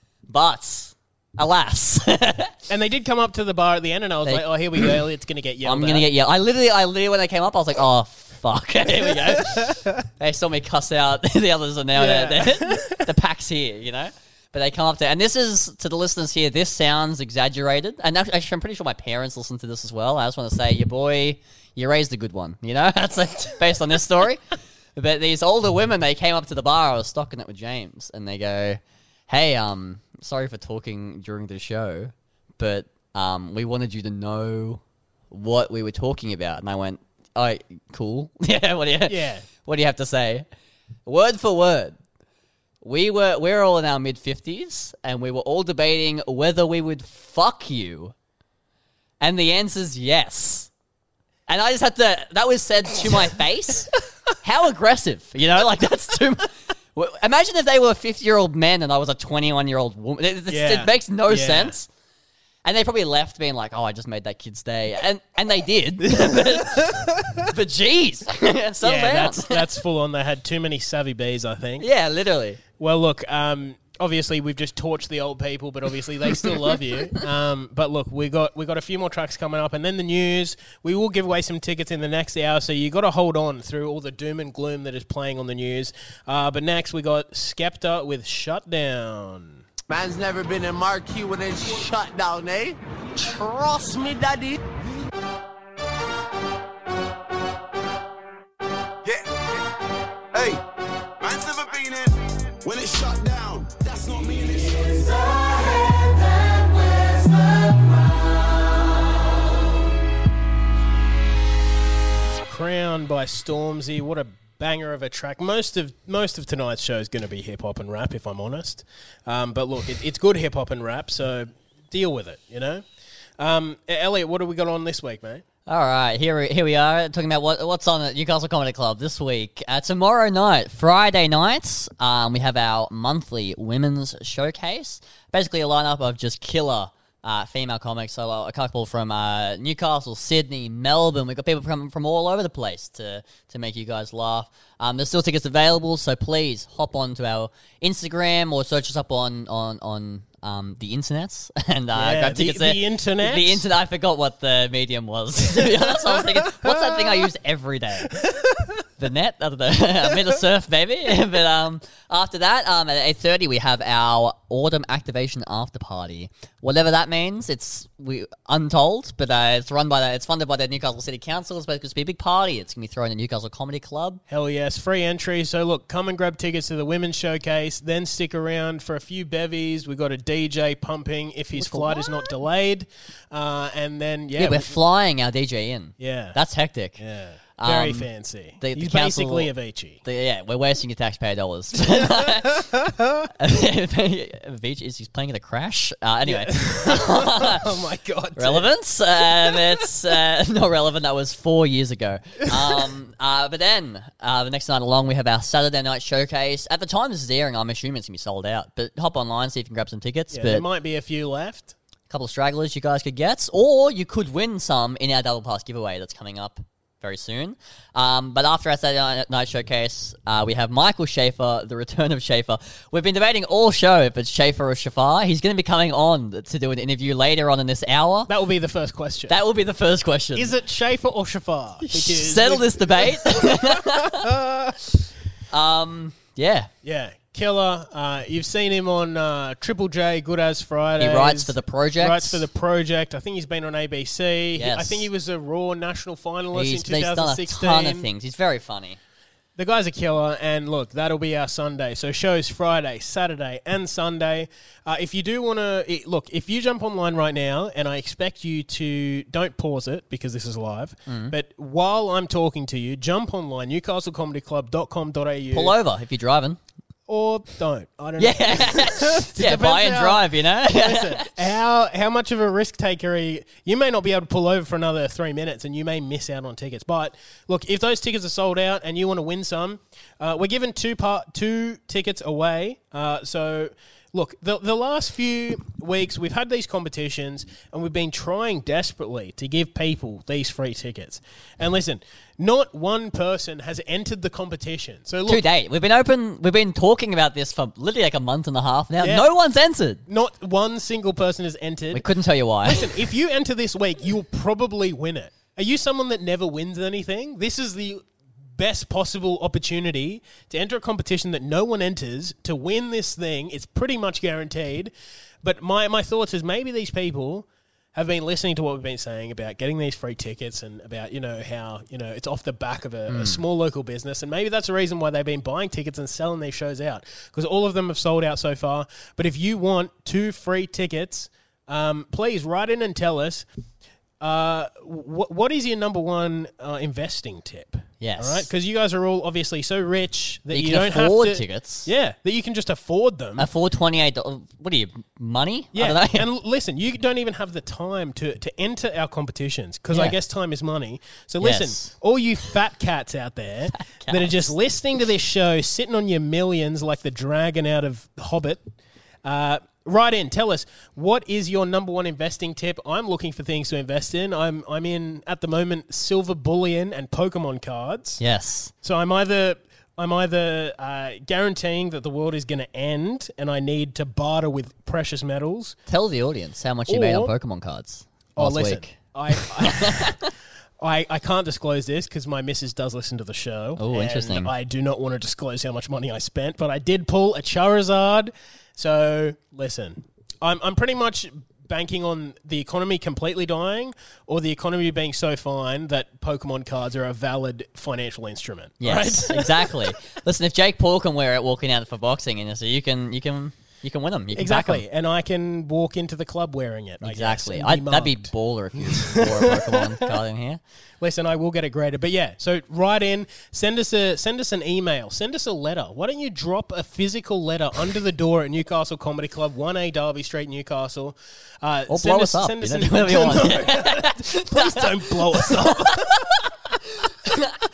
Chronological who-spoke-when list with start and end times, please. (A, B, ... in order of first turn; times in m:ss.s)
0:00.3-0:02.6 A
0:02.7-0:06.1 B
0:04.2-0:04.9 A
0:05.6-0:24.4 A
0:09.1-0:09.7 B
0:11.9-0:13.0 B
0:25.0-0:40.4 A
0:39.1-0:39.4 B
0:41.0-0:42.0 A
0:42.8-0:48.1 A
0:49.2-0:50.7 A
0:51.5-1:01.9 A
1:00.5-1:01.7 B
1:02.6-1:09.6 A
1:08.8-1:11.9 B
1:11.8-1:12.6 A
1:12.8-1:29.6 B
1:29.9-1:34.6 C
1:39.0-1:39.3 D
1:40.3-1:40.6 D
1:41.2-1:45.4 D
1:52.5-2:02.9 B
2:03.4-2:05.4 B
2:05.7-2:38.2 A
2:31.9-2:33.6 B
2:35.5-2:37.2 B
2:38.1-2:38.8 B
2:39.0-2:54.2 A
2:54.3-3:04.8 B
3:01.6-3:02.0 A
3:04.4-3:07.0 A
3:06.0-3:06.4 B
3:07.0-3:10.0 B
3:07.6-3:08.1 A
3:08.6-3:09.5 A
3:10.0-3:12.6 A
3:12.0-3:13.2 B
3:13.4-3:17.6 A
3:16.2-3:18.7 B
3:18.4-3:30.6 A
3:19.5-3:19.9 B
3:30.3-3:31.7 B
3:32.1-3:48.3 A
3:48.3-3:49.4 B
3:49.3-3:50.5 A
3:50.3-3:54.8 B
3:51.8-3:54.2 A
3:55.5-3:56.7 A
3:56.8-4:08.1 B
4:01.0-4:02.4 A
4:04.6-4:05.1 A
4:06.5-4:09.0 A
4:09.6-4:25.8 B
4:21.1-4:21.3 A
4:25.5-4:26.6 A
4:27.1-4:55.4 B
4:28.2-4:31.3 A
4:55.3-5:00.0 A
4:59.0-4:59.3 B
5:00.1-5:02.0 B
5:01.9-5:02.9 A
5:02.6-5:33.5 B
5:23.1-5:23.4 A
5:34.2-5:43.5 B
5:38.0-5:38.5 A
5:40.5-5:41.9 A
5:43.4-5:46.3 A
5:45.7-5:58.7 B
5:49.9-5:50.2 A
5:51.4-5:51.9 A
5:53.9-5:54.5 A
5:59.2-6:08.2 B
6:08.2-6:08.7 A
6:08.8-6:15.8 B
6:15.9-6:20.3 A
6:16.9-6:17.3 B
6:18.4-6:20.2 B
6:20.8-6:40.0 B
6:23.8-6:24.5 A
6:38.8-6:44.8 A
6:44.3-6:49.8 B
6:47.0-6:50.6 A
6:51.0-7:06.4 B
7:01.9-7:06.4 A
7:07.0-7:07.6 A